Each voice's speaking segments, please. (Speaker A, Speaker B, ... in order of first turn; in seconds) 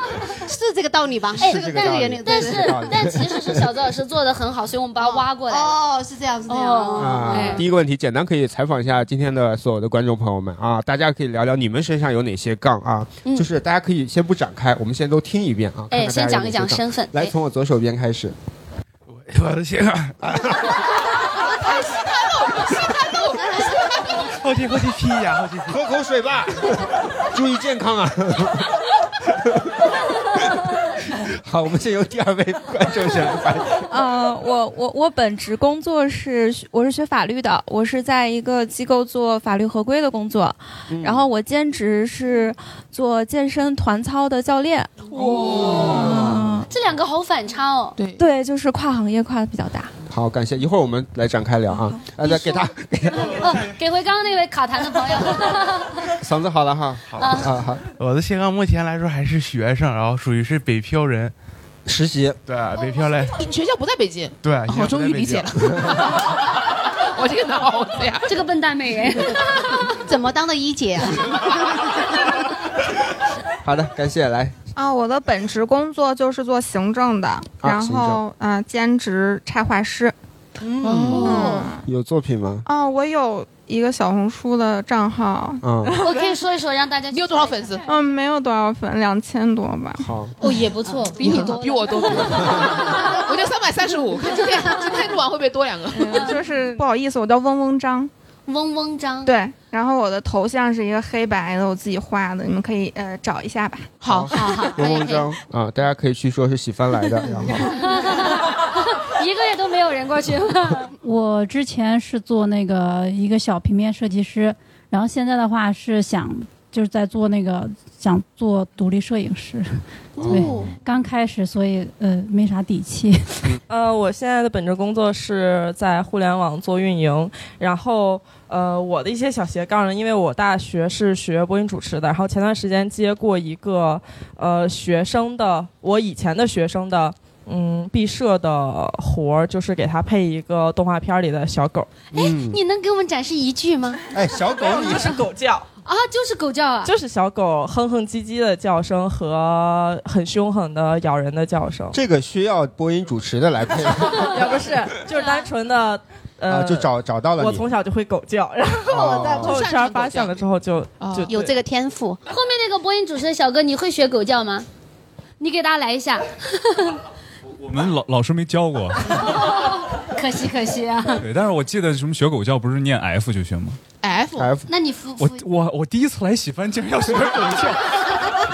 Speaker A: 0.4-2.7, 5.0-7.6, 70.0-71.4, 158.9-159.5, 161.3-162.2
Speaker B: 1.4-5.8, 6.5-7.6, 15.9-17.3, 45.6-46.1, 46.7-48.0, 52.2-56.1, 57.2-57.5, 68.2-69.9, 81.0-81.6, 86.0-87.8, 90.4-93.2, 94.4-94.8, 96.1-96.4, 98.5-99.3, 104.3-105.2, 107.6-110.9, 142.1-144.0, 145.8-146.9, 162.3-164.7, 165.4-167.0, 169.2-171.2, 174.7-175.4
Speaker C: 1.4-3.7, 7.0-18.3, 20.2-20.8, 25.7-28.7, 31.2-33.9, 40.9-41.2, 50.1-53.5, 56.2-57.8, 61.9-62.4, 73.6-74.5, 77.6-78.2, 80.6-82.6, 85.6-86.0, 90.0-90.3, 92.3-92.5, 104.1-107.7, 120.2-120.6, 142.1-142.6, 144.1-145.2, 151.9-154.4, 156.5-157.7, 158.9-159.6, 174.4-174.7
Speaker D: 19.1-20.2, 24.4-25.8, 57.1-57.4, 58.0-61.3, 62.5-63.4, 64.4-65.8
Speaker E: 21.4-24.3, 45.1-46.2, 63.3-66.4, 67.1-68.3, 80.8-81.6, 87.1-87.8, 91.1-96.4, 104.0-104.8, 159.3-160.4, 161.0-161.4, 174.0-174.5
Speaker F: 33.9-45.4, 45.9-46.7, 48.2-49.9
Speaker G: 74.8-80.1, 81.1-81.8, 82.7-86.1, 87.8-90.1, 96.0-98.1, 99.2-104.0
Speaker H: 111.0-123.5
Speaker I: 123.7-141.9, 144.5-145.7, 146.8-152.0, 154.1-161.5
Speaker J: 167.6-169.3, 171.2-173.8, 175.2-178.0